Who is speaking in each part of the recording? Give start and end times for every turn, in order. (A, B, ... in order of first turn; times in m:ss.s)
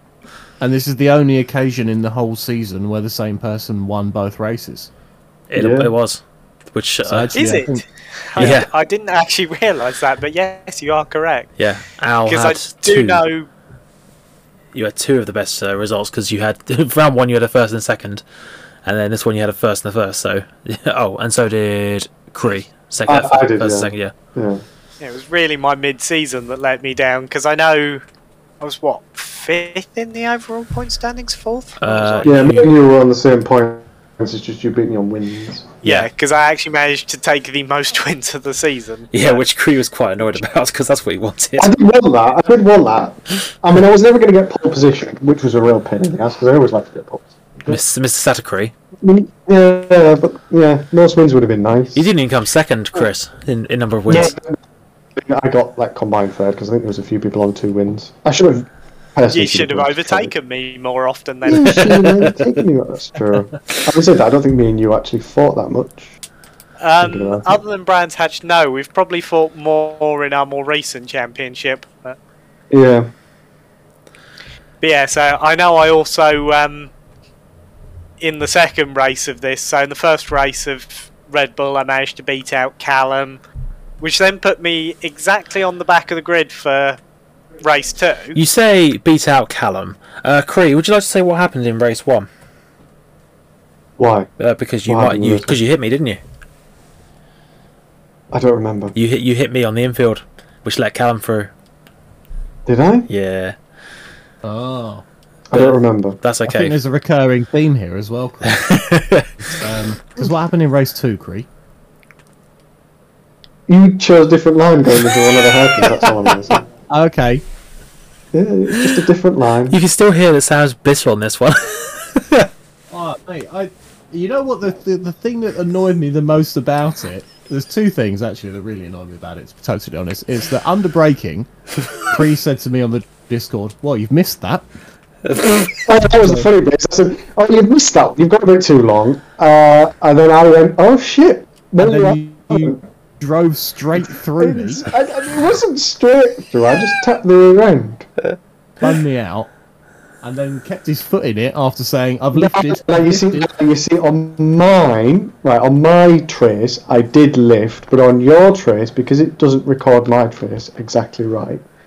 0:00.6-0:04.9 A
0:05.5-0:07.4 B
0:05.6-0:05.9 C
0:07.0-0:07.8 A
0:07.4-0:11.5 D
0:08.4-0:08.7 B
0:11.6-0:13.2 B
0:12.3-0:13.5 D
0:14.7-0:18.2 B
0:18.8-0:24.1 B
0:23.1-0:24.6 C
0:25.0-0:28.0 D
0:28.6-0:32.5 D
0:31.8-0:32.7 B
0:32.3-0:35.7 C
0:35.8-0:36.1 B
0:35.8-0:39.4 D
0:39.1-0:41.7 B
0:41.6-0:47.8 C
0:47.7-0:48.7 B
0:49.0-0:52.0 C
0:52.0-0:54.4 B
0:54.1-0:54.6 C
0:55.2-1:00.3 C
0:59.3-1:01.9 D
1:01.5-1:06.1 C
1:01.5-1:02.5 B
1:06.8-1:12.2 D
1:07.0-1:07.6 C
1:12.7-1:13.1 C
1:14.8-1:16.9 D
1:18.2-1:23.4 D
1:24.0-1:27.0 D
1:27.6-1:28.4 D
1:28.4-1:32.3 B
1:34.0-1:34.3 C
1:34.4-1:36.2 B
1:34.9-1:35.6 C
1:38.3-1:38.9 C
1:39.0-1:41.5 B
1:42.7-1:43.1 C
1:43.1-1:43.6 B
1:44.4-1:45.0 A
1:45.5-1:46.2 C
1:45.5-1:46.8 B
1:46.4-1:48.6 A
1:48.4-1:49.7 B
1:49.4-1:51.5 A
1:53.7-1:56.7 C
1:55.9-1:56.4 B
1:56.9-1:57.4 A
1:58.3-1:59.8 C
1:59.7-2:02.5 B
2:02.9-2:11.5 A
2:12.0-2:14.7 A
2:15.2-2:15.9 B
2:15.8-2:22.8 C
2:16.2-2:16.5 A
2:21.8-2:24.8 A
2:24.4-2:28.1 C
2:28.8-2:29.5 A
2:30.2-2:33.5 A
2:32.4-2:41.6 C